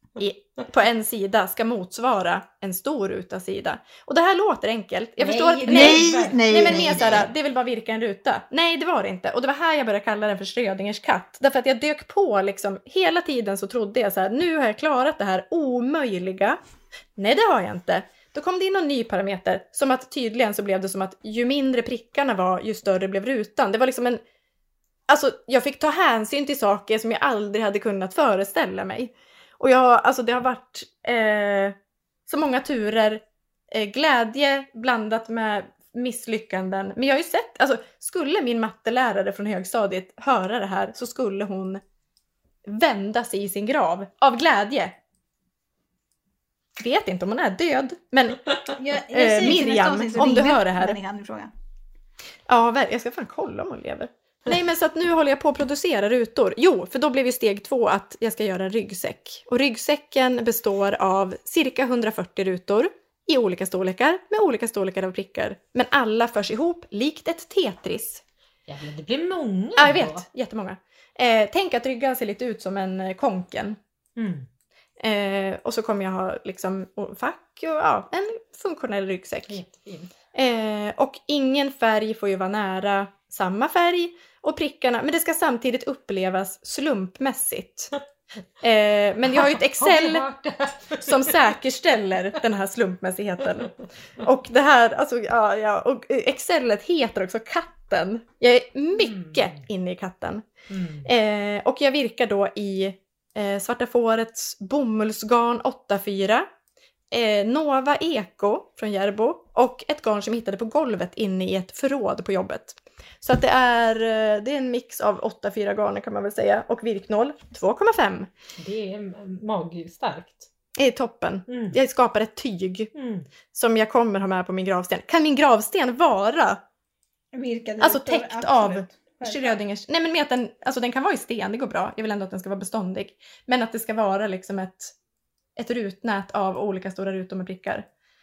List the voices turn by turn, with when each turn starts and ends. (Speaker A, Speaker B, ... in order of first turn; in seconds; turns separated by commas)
Speaker A: 0.1-16.6, Speaker B: 5.2-7.2, Speaker C: 5.7-7.2, Speaker A: 17.1-24.2, Speaker A: 25.1-31.8, Speaker A: 32.3-41.8, Speaker A: 42.6-45.0, Speaker A: 46.8-51.0, Speaker C: 48.8-51.5, Speaker A: 52.5-68.2, Speaker B: 68.7-70.2, Speaker A: 69.8-73.8, Speaker B: 74.2-74.5, Speaker A: 75.0-79.6, Speaker B: 79.5-80.1, Speaker A: 80.3-87.9, Speaker A: 88.6-90.2, Speaker B: 89.6-91.4, Speaker A: 91.0-100.5, Speaker B: 99.0-99.6, Speaker B: 100.7-101.1, Speaker A: 101.0-106.5, Speaker A: 107.1-118.3, Speaker B: 118.6-120.5, Speaker A: 120.8-122.9, Speaker B: 121.5-121.8, Speaker B: 122.9-123.3, Speaker A: 123.5-126.6, Speaker C: 127.3-129.6, Speaker A: 127.8-134.9, Speaker A: 135.6-137.9